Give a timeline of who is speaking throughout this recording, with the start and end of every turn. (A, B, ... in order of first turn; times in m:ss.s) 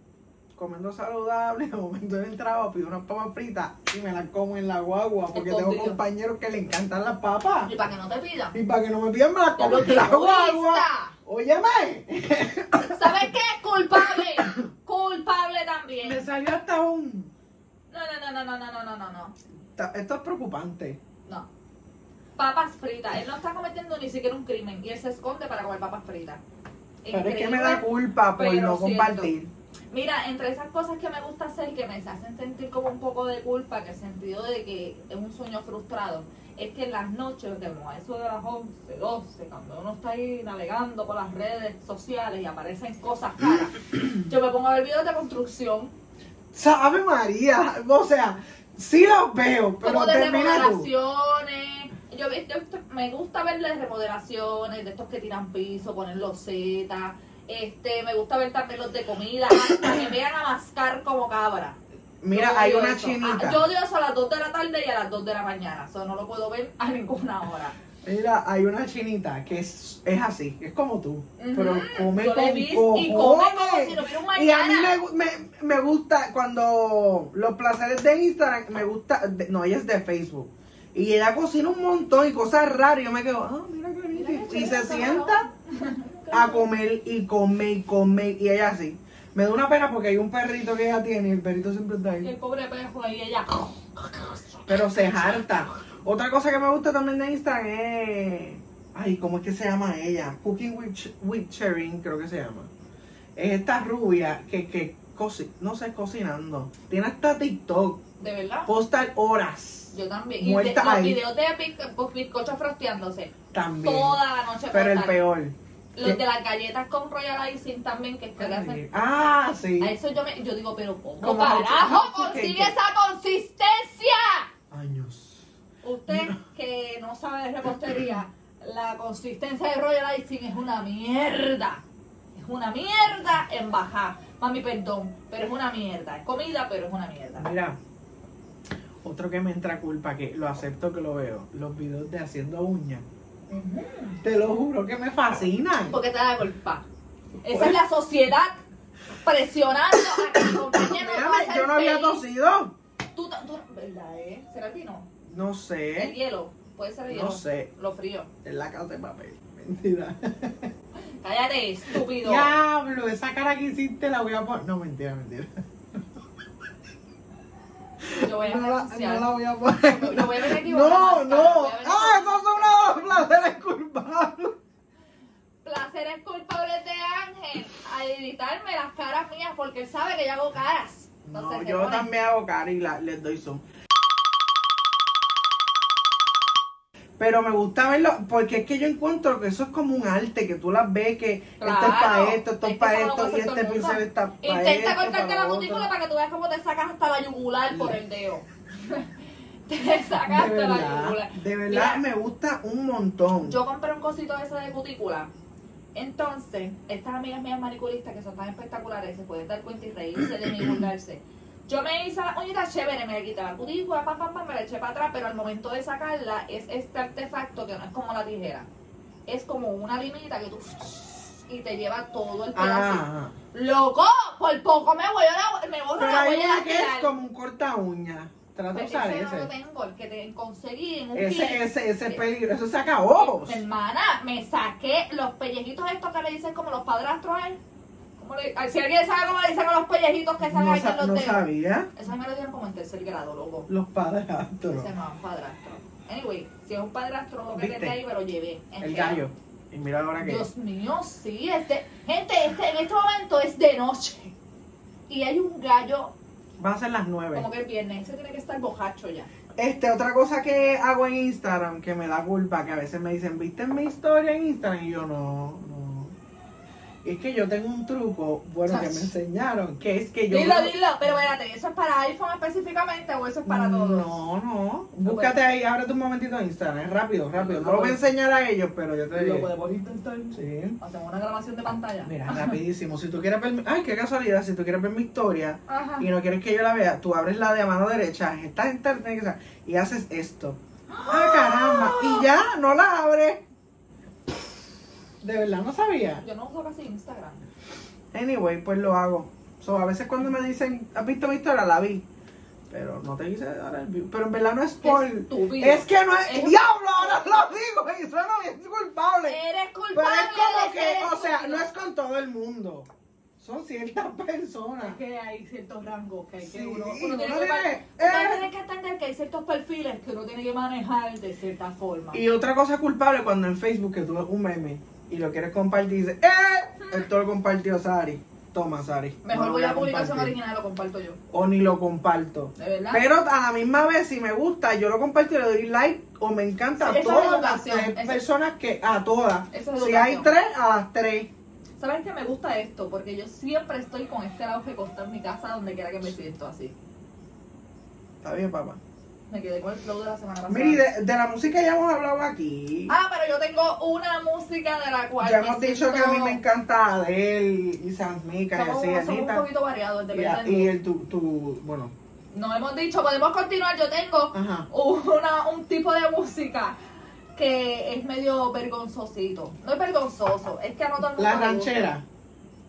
0:00.6-0:07.7 A
0:05.3-0:06.0 B
0:07.6-0:08.6 B
0:08.5-0:13.3 A
0:09.6-0:11.1 B
0:12.9-0:16.2 B
0:14.0-0:14.7 A
0:16.0-0:17.3 A
0:17.9-0:19.3 B
0:19.7-0:21.0 A
0:22.4-0:26.4 B
0:27.0-0:29.3 B
0:27.1-0:29.5 A
0:29.9-0:45.9 B
0:46.5-0:50.9 A
0:49.8-1:01.8 B
1:02.2-1:03.6 A
1:02.3-1:07.8 B
1:08.0-1:25.4 A
1:11.4-1:15.0 B
1:24.1-1:26.7 B
1:26.3-1:32.3 A
1:32.2-1:35.2 B
1:34.7-1:42.7 A
1:43.4-1:48.0 A
1:48.2-1:48.7 B
1:48.6-1:51.2 A
1:49.9-1:55.2 B
1:53.5-1:54.2 A
1:54.7-1:56.2 A
1:55.9-1:58.8 B
1:58.4-1:59.9 A
1:59.8-2:04.5 B
2:01.2-2:02.7 A
2:04.7-2:05.4 A
2:05.8-2:11.8 B
2:06.1-2:06.4 A
2:12.3-2:17.5 B
2:17.4-2:17.8 A
2:19.0-2:23.0 A
2:23.5-2:24.2 B
2:24.2-2:26.0 A
2:25.9-2:26.8 B
2:27.4-2:28.6 B
2:27.4-2:27.8 A
2:29.2-2:32.2 B
2:30.2-2:32.7 A
2:33.1-2:35.1 B
2:35.2-2:36.1 A
2:36.0-2:38.3 B
2:37.1-2:37.7 A
2:38.4-2:40.7 A
2:41.2-2:42.5 B
2:41.9-2:45.6 A
2:48.0-2:54.6 A
2:48.1-2:53.2 B
2:55.6-3:02.1 B
3:01.2-3:03.6 A
3:07.2-3:15.9 A
3:11.6-3:19.1 B
3:17.7-3:18.0 A
3:19.7-3:22.0 B
3:20.2-3:23.6 A
3:23.4-3:25.3 B
3:25.9-3:38.7 B
3:39.3-3:47.1 B
3:42.5-3:43.3 A
3:46.0-3:49.5 A
3:48.7-3:52.2 B
3:51.1-3:53.6 A
3:53.2-3:57.6 B
3:58.2-4:03.7 B
4:00.4-4:01.9 A
4:03.7-4:04.9 A
4:04.7-4:09.2 B
4:07.5-4:08.0 A
4:08.8-4:10.4 A
4:10.2-4:14.3 B
4:15.1-4:16.1 B
4:16.6-4:17.5 A
4:17.3-4:19.3 B
4:19.6-4:26.1 A
4:27.0-4:30.7 A
4:28.6-4:29.1 B
4:30.3-4:34.2 B
4:33.4-4:39.5 A
4:35.0-4:35.4 B
4:37.4-4:38.0 B
4:39.1-4:42.6 B
4:40.3-4:40.8 A
4:42.0-4:53.4 A
4:45.7-4:46.1 B
4:50.9-4:52.3 B
4:55.2-4:56.2 A
4:56.2-4:57.4 B
4:58.1-5:02.0 A
5:02.7-5:09.4 A
5:04.8-5:06.6 B
5:09.2-5:11.7 B
5:09.9-5:12.9 A
5:13.4-5:15.0 A
5:14.8-5:22.2 B
5:16.4-5:18.4 A
5:22.1-5:30.4 A
5:29.2-5:31.2 B
5:31.3-5:41.3 A
5:32.6-5:33.0 B
5:36.8-5:38.2 B
5:39.5-5:40.3 B
5:41.8-5:46.7 B
5:48.2-5:48.8 A
5:49.3-5:50.8 B
5:50.5-5:52.9 A
5:52.9-5:56.4 B
5:55.2-5:59.4 A
5:58.5-6:00.7 B
6:00.1-6:01.9 A
6:02.3-6:06.8 B
6:04.3-6:04.7 A
6:07.4-6:11.9 B
6:11.2-6:12.0 A